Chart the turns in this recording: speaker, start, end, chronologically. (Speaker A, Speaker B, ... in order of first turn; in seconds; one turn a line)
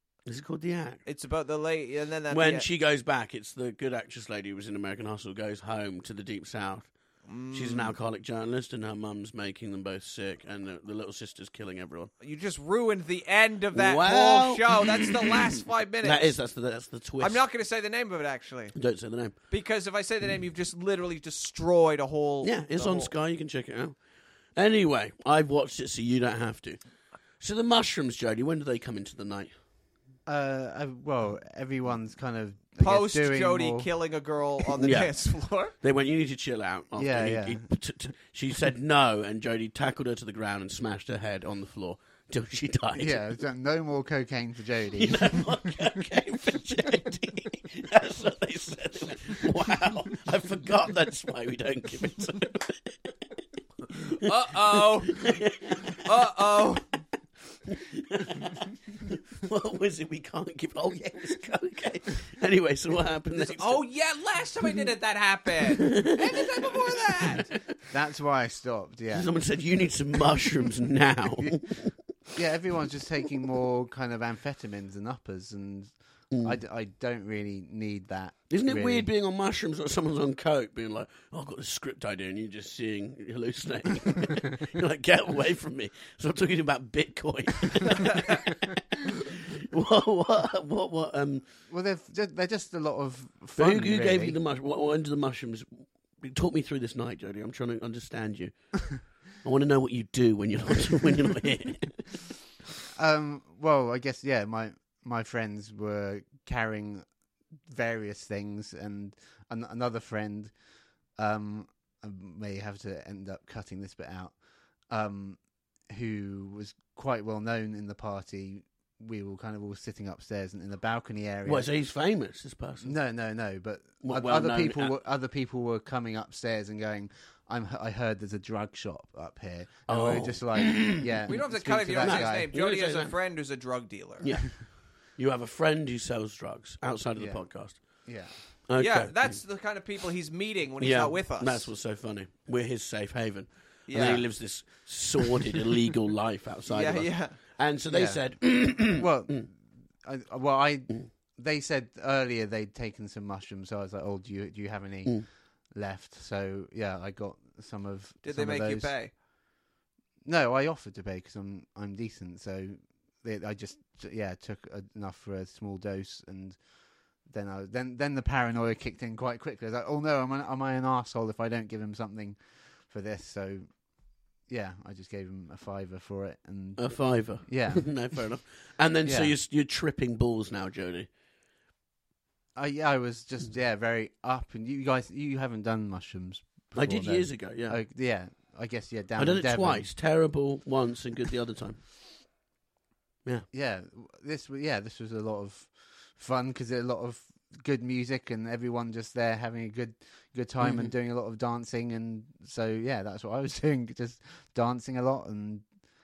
Speaker A: 0.2-1.0
Speaker B: 1.0-2.7
Speaker A: 2.3-6.9
Speaker B: 7.3-8.0
Speaker A: 7.5-12.1
Speaker B: 12.2-16.3
Speaker A: 13.7-17.4
Speaker B: 17.2-18.8
Speaker A: 18.7-19.3
Speaker B: 19.5-23.1
Speaker A: 22.4-24.0
Speaker A: 24.6-26.8
Speaker A: 27.4-29.5
Speaker C: 30.2-33.9
Speaker B: 32.8-35.7
Speaker A: 34.8-35.1
Speaker A: 35.8-43.2
Speaker C: 37.0-37.7
Speaker C: 43.0-45.9
Speaker A: 45.0-53.2
Speaker A: 53.9-56.1
Speaker B: 54.1-56.8
Speaker A: 57.6-63.8
Speaker B: 63.3-67.6
Speaker A: 65.7-66.5
Speaker A: 67.3-67.7
Speaker C: 67.9-69.3
Speaker A: 69.1-71.9
Speaker C: 72.3-79.1
Speaker A: 76.3-76.6
Speaker A: 78.5-91.4
Speaker C: 91.7-94.4
Speaker A: 93.6-98.7
Speaker A: 99.4-102.1
Speaker C: 102.9-107.0
Speaker C: 107.6-110.5
Speaker C: 111.2-114.3
Speaker C: 114.9-121.7
Speaker A: 121.4-122.9
Speaker C: 122.8-132.5
Speaker A: 124.0-124.9
Speaker A: 129.9-131.4
Speaker B: 131.3-134.5
Speaker A: 131.9-133.1
Speaker A: 134.2-137.8
Speaker C: 137.2-137.4
Speaker C: 138.0-138.3
Speaker A: 138.7-139.3
Speaker B: 138.8-141.7
Speaker A: 140.8-149.4
Speaker B: 143.9-144.2
Speaker B: 146.7-147.4
Speaker C: 147.9-158.9
Speaker B: 158.2-159.1
Speaker C: 160.2-166.6
Speaker C: 167.2-173.7
Speaker C: 174.5-177.9
Speaker A: 176.8-181.1
Speaker C: 179.1-179.3
Speaker C: 182.6-189.9
Speaker A: 186.8-187.8
Speaker A: 189.2-191.8
Speaker C: 193.5-205.7
Speaker A: 200.6-200.9